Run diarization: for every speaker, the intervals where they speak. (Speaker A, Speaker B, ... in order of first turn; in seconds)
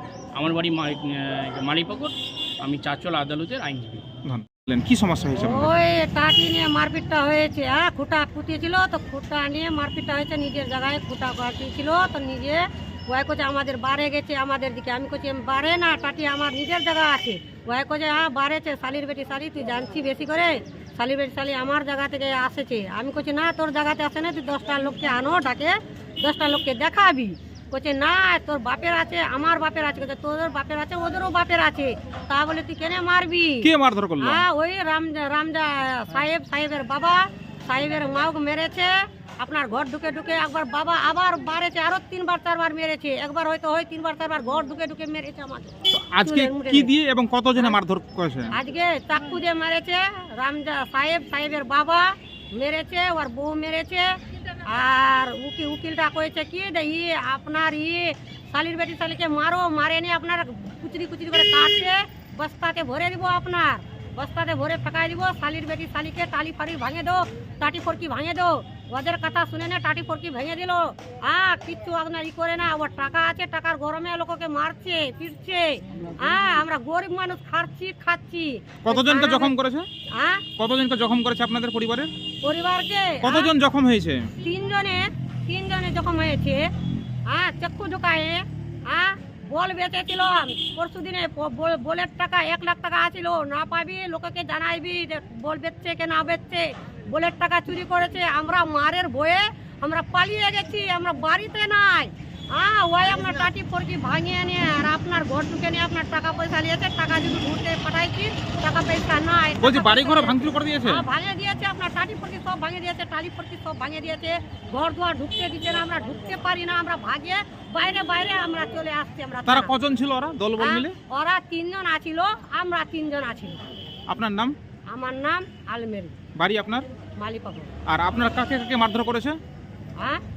Speaker A: 0.3-4.0
Speaker B: 4.2-5.7, 33.6-34.4, 45.9-48.5, 78.8-79.9, 80.6-82.1, 83.2-84.3, 109.6-111.0, 119.5-121.0, 124.1-124.5, 126.4-126.8, 127.9-129.4
Speaker C: 5.3-46.9, 48.5-79.5, 80.1-80.4, 82.4-83.5, 84.4-86.6, 87.3-119.8, 120.6-123.6, 124.9-126.2, 127.2-127.7